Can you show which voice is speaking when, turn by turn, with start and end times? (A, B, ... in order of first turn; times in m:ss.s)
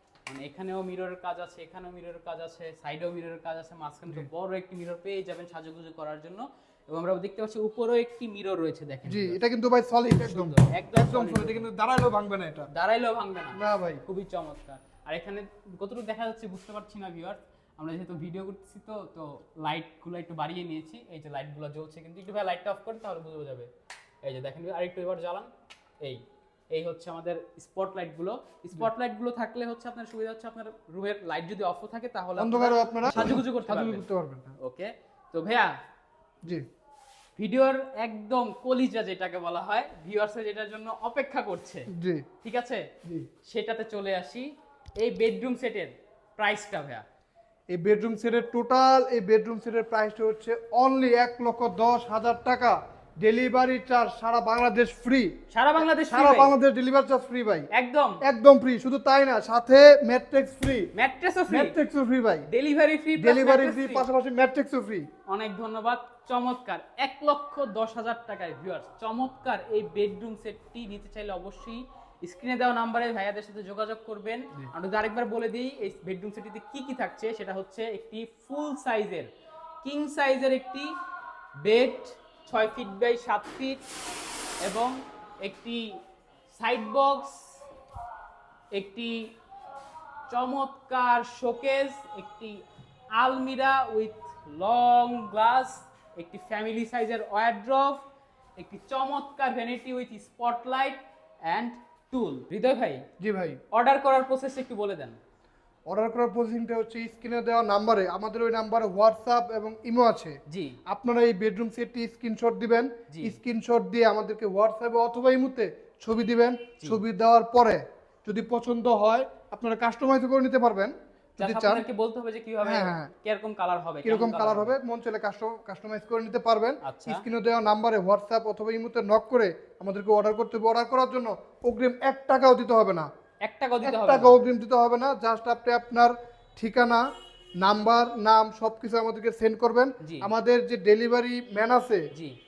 0:00.3-0:09.4 A
0:09.1-0:12.7 B
0:10.2-0:11.7 A
0:12.7-0:23.7 A
0:13.6-0:14.0 B
0:24.2-0:25.5 A
0:26.0-0:34.0 A
0:32.4-0:34.6 B
0:34.6-0:35.7 A
0:37.4-0:41.9 A
0:41.9-0:42.2 B
0:42.4-0:42.9 A
0:43.5-0:47.0 A
0:47.7-0:57.7 B
0:55.5-0:56.6 A
0:57.7-0:58.2 A
0:58.2-1:00.9 B
1:00.9-1:01.8 A
1:01.5-1:02.5 B
1:02.5-1:04.1 A
1:03.2-1:05.1 B
1:05.3-1:19.3 A
1:19.8-1:21.0 A
1:21.6-1:23.8 A
1:24.6-1:26.0 A
1:26.6-1:27.6 A
1:28.7-1:29.3 A
1:30.3-1:32.6 A
1:33.2-1:38.0 A
1:38.6-1:43.0 A
1:43.2-1:43.6 B
1:43.7-1:45.2 A
1:45.9-2:01.8 B
1:50.5-1:50.8 A
1:53.1-1:53.4 A
2:01.4-2:04.8 A
2:02.6-2:03.1 B
2:04.0-2:13.1 B
2:06.8-2:07.2 A
2:13.4-2:14.5 A
2:13.8-2:17.0 B
2:17.6-2:22.0 B
2:20.0-2:20.3 A
2:22.1-2:22.4 A